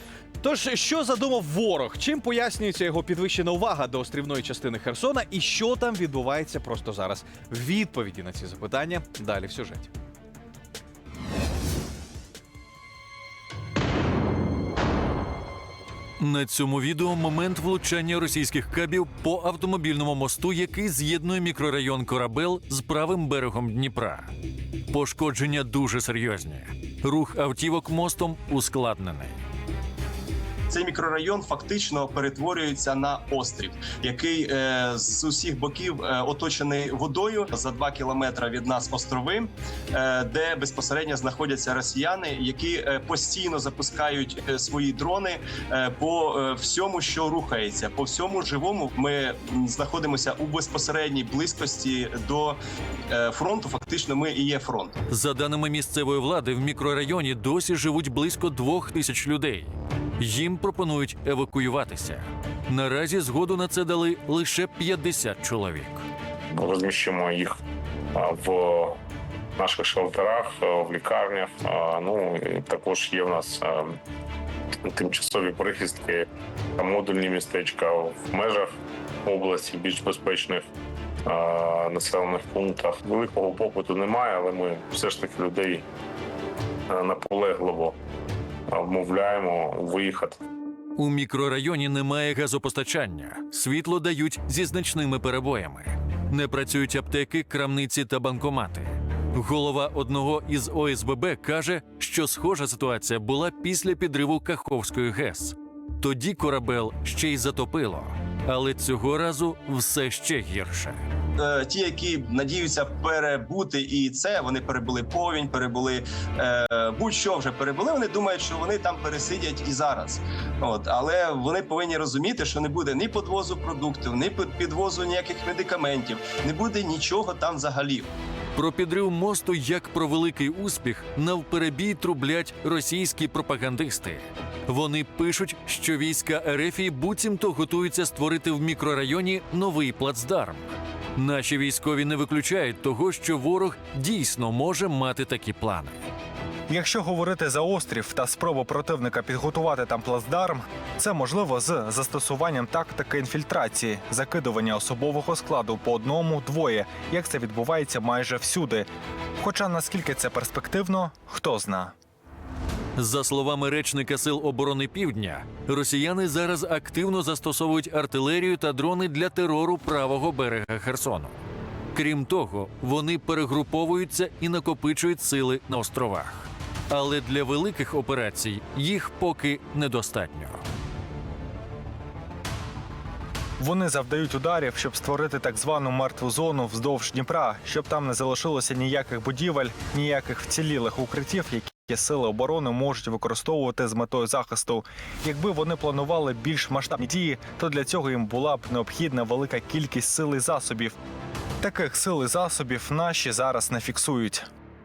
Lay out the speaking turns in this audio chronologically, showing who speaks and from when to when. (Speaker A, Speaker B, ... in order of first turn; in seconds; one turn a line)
Speaker A: 0.4-9.9
Speaker B: 16.2-24.3
Speaker B: 24.9-29.4
Speaker C: 30.7-52.6
Speaker C: 53.1-54.9
Speaker B: 55.1-66.0
Speaker D: 66.5-67.5
Speaker D: 68.1-69.0
Speaker D: 69.6-74.0
Speaker D: 74.8-78.7
Speaker D: 79.2-80.7
Speaker D: 81.2-85.8
Speaker D: 86.9-88.0
Speaker D: 88.7-90.4
Speaker B: 91.0-111.0
Speaker C: 111.4-128.1
Speaker B: 128.5-140.6
Speaker B: 141.2-145.9
Speaker E: 146.7-158.9
Speaker E: 159.4-161.9
Speaker B: 163.0-171.3
Speaker B: 171.9-180.6
Speaker E: 183.6-200.9
Speaker E: 201.6-204.5